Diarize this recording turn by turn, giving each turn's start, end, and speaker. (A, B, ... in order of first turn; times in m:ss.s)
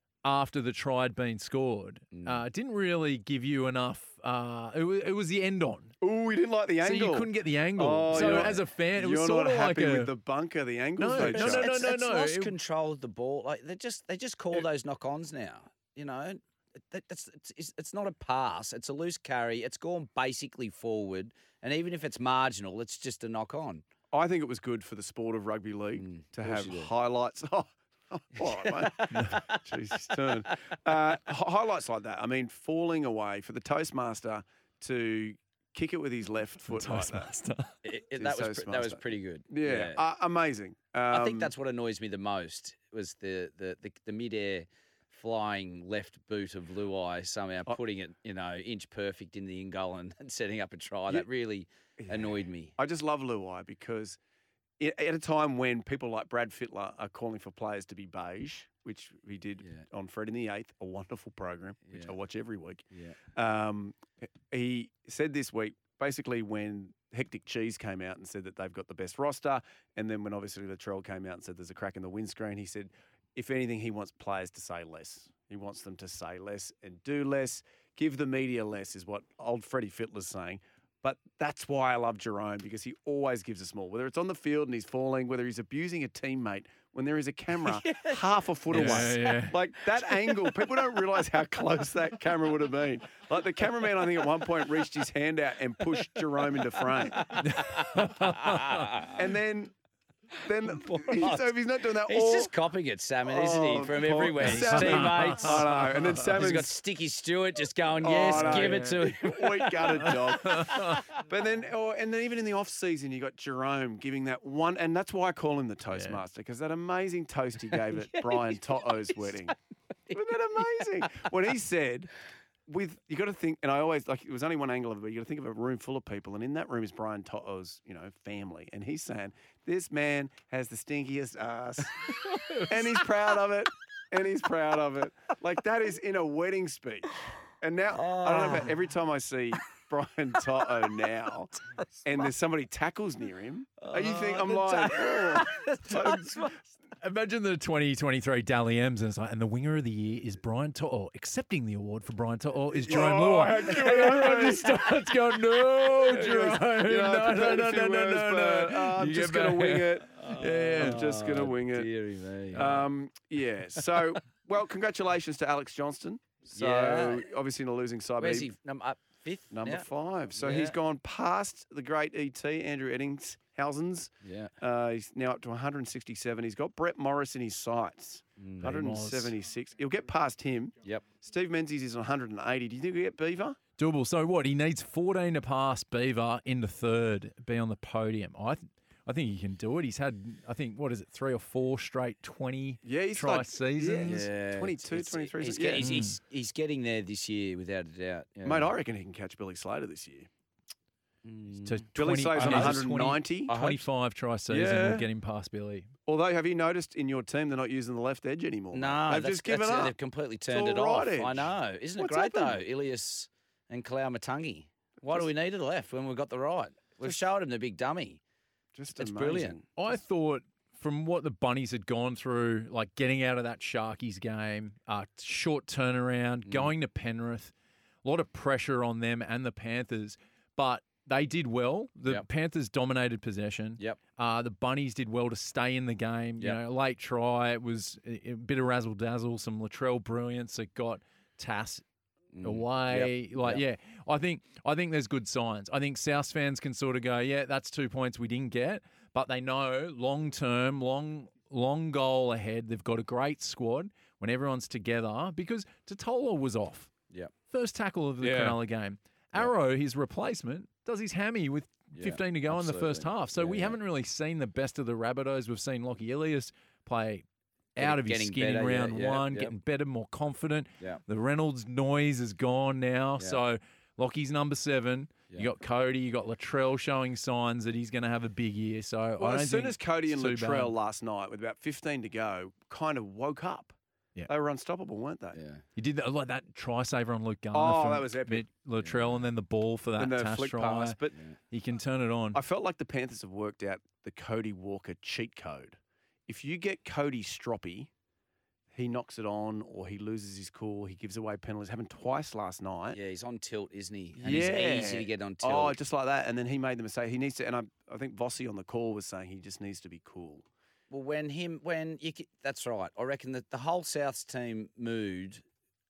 0:00.2-0:06.0 A
0:02.1-0:02.4 B
0:06.0-0:11.8 C
0:06.8-0:10.1 A
0:08.1-0:08.5 B
0:11.0-0:12.5 A
0:11.1-0:23.8 B
0:24.1-0:37.3 C
0:25.9-0:26.9 B
0:28.4-0:30.2 B
0:29.1-0:29.4 A
0:36.7-0:37.7 A
0:37.8-0:40.0 B
0:38.1-0:41.5 C
0:41.1-0:52.7 B
0:52.0-0:54.2 C
0:54.8-1:37.3 C
0:59.6-0:59.8 B
1:01.9-1:02.1 B
1:02.9-1:03.2 B
1:27.7-1:28.2 B
1:28.7-1:29.1 B
1:28.7-1:29.6 A
1:37.2-1:39.1 B
1:37.4-1:38.9 A
1:39.1-1:39.7 C
1:40.4-1:42.5 C
1:40.7-1:41.5 B
1:42.0-1:51.0 B
1:43.2-1:46.7 C
1:44.4-1:46.4 A
1:48.0-1:59.5 C
1:48.3-1:49.0 A
1:50.5-1:51.0 A
1:55.9-1:56.2 A
1:58.1-1:58.6 B
2:00.1-2:00.7 B
2:00.1-2:02.1 C
2:02.6-2:21.5 C
2:17.9-2:18.7 B
2:22.0-2:26.5 C
2:23.8-2:26.6 B
2:27.0-2:41.0 A
2:32.7-2:34.8 C
2:33.8-2:34.6 B
2:36.1-2:36.6 B
2:36.1-2:41.9 C
2:40.8-2:42.8 B
2:42.5-2:48.5 C
2:46.5-2:47.2 B
2:48.2-2:50.8 B
2:49.5-3:03.6 C
2:54.2-2:54.5 B
2:58.4-2:58.7 B
2:58.6-2:59.3 A
3:03.8-3:14.2 A
3:12.8-3:15.9 C
3:14.0-3:18.7 B
3:15.8-3:16.2 A
3:18.4-3:20.3 C
3:21.2-3:21.8 B
3:21.6-3:25.9 A
3:22.0-3:23.5 C
3:22.4-3:22.8 B
3:23.5-3:23.8 B
3:24.5-3:25.1 C
3:26.1-3:30.0 C
3:28.7-3:38.2 B
3:30.5-3:32.6 C
3:35.0-3:35.3 C
3:38.7-3:39.7 C
3:39.0-3:39.6 B
3:39.8-3:47.5 A
3:46.4-3:46.7 B
3:48.0-4:01.8 A
4:02.3-4:03.6 B
4:02.4-4:16.9 A
4:17.5-4:27.2 A
4:18.2-4:18.6 C
4:21.9-4:23.8 B
4:27.8-4:40.7 A
4:27.8-4:29.5 B
4:39.2-4:43.8 C
4:44.3-4:45.4 C
4:45.3-4:45.6 B
4:45.8-4:51.0 A
4:47.5-4:48.4 C
4:48.8-4:49.2 B
4:50.0-4:51.2 C
4:51.5-4:52.4 A
4:52.3-4:57.9 C
4:58.7-5:03.0 C
5:02.9-5:05.8 B
5:04.2-5:10.4 C
5:10.9-5:15.4 B